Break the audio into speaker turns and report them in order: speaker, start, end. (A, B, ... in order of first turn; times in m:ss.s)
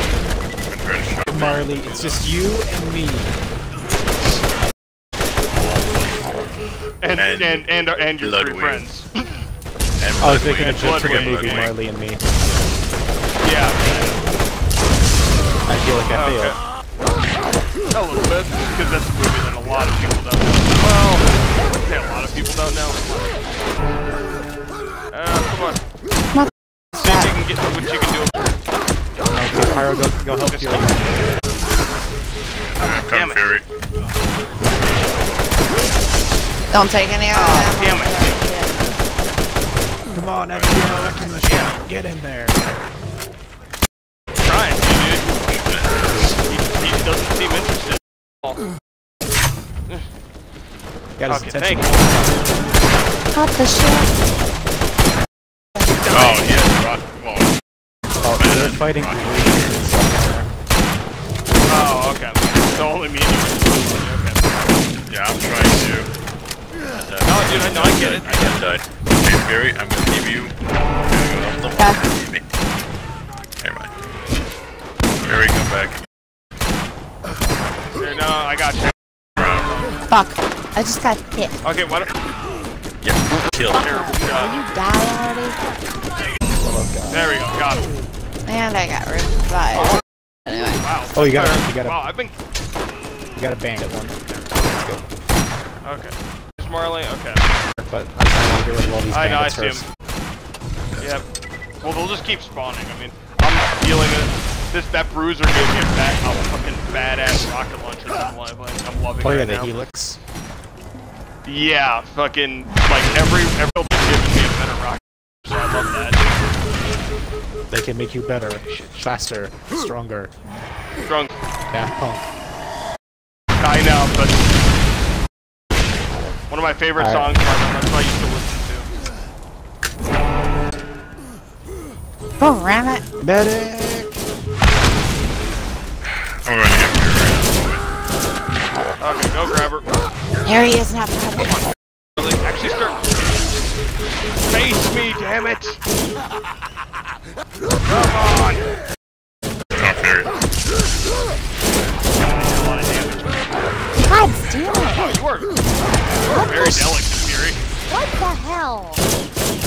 0:00.6-0:02.3 A
0:01.3-0:03.4 B
0:05.5-0:06.3 A
0:07.0-0:09.1 C
0:07.1-0:08.8 A
0:10.0-0:11.7 A
0:10.2-0:12.3 B
0:10.4-0:11.7 C
0:13.4-0:14.4 C
0:15.7-0:16.6 B
0:16.1-0:16.6 C
0:17.9-0:23.4 C
0:25.1-0:25.8 C
0:26.3-0:27.3 D
0:26.9-0:28.4 C
0:29.3-0:31.3 B
0:30.4-0:30.9 C
0:32.8-0:33.6 A
0:33.1-0:33.4 C
0:36.7-0:39.0 D
0:37.3-0:38.4 C
0:40.1-0:42.7 B
0:40.5-0:41.4 A
0:41.3-0:41.7 C
0:44.4-0:45.2 C
0:45.0-0:46.4 A
0:46.4-0:48.6 C
0:51.2-0:52.1 B
0:51.3-0:52.1 C
0:53.3-0:54.2 D
0:56.1-0:57.5 A
0:58.2-1:00.5 B
0:58.3-0:59.8 A
1:01.7-1:04.5 C
1:05.1-1:06.1 A
1:06.9-1:10.5 A
1:07.2-1:08.8 C
1:11.0-1:12.4 A
1:13.6-1:13.9 A
1:15.2-1:16.0 A
1:17.9-1:19.9 C
1:19.4-1:19.7 A
1:20.1-1:21.6 D
1:21.6-1:22.1 C
1:23.0-1:24.1 A
1:23.7-1:24.6 C
1:23.7-1:25.6 D
1:26.6-1:27.3 B
1:27.1-1:27.9 C
1:28.4-1:30.8 D
1:29.7-1:30.0 C
1:30.6-1:32.3 C
1:31.1-1:32.0 B
1:33.4-1:35.0 B
1:35.8-1:37.5 C
1:37.7-1:39.8 B
1:39.1-1:39.8 C
1:40.9-1:41.2 A
1:41.0-1:41.2 C
1:41.8-1:49.8 C
1:49.2-1:50.2 B
1:51.4-1:56.2 C
1:57.7-2:00.3 B
1:58.6-1:59.1 C
2:01.0-2:01.4 C
2:01.7-2:02.3 B
2:03.6-2:04.4 C
2:06.5-2:08.9 C
2:07.0-2:07.3 B
2:12.4-2:13.0 D
2:13.2-2:14.2 B
2:16.4-2:17.8 A
2:19.0-2:20.0 C
2:20.4-2:21.6 D
2:22.2-2:23.0 C
2:24.4-2:25.8 C
2:27.8-2:28.6 C
2:29.8-2:30.3 A
2:32.1-2:33.6 C
2:34.0-2:35.2 D
2:34.7-2:35.6 C
2:36.2-2:37.6 C
2:36.3-2:36.9 D
2:37.9-2:39.0 D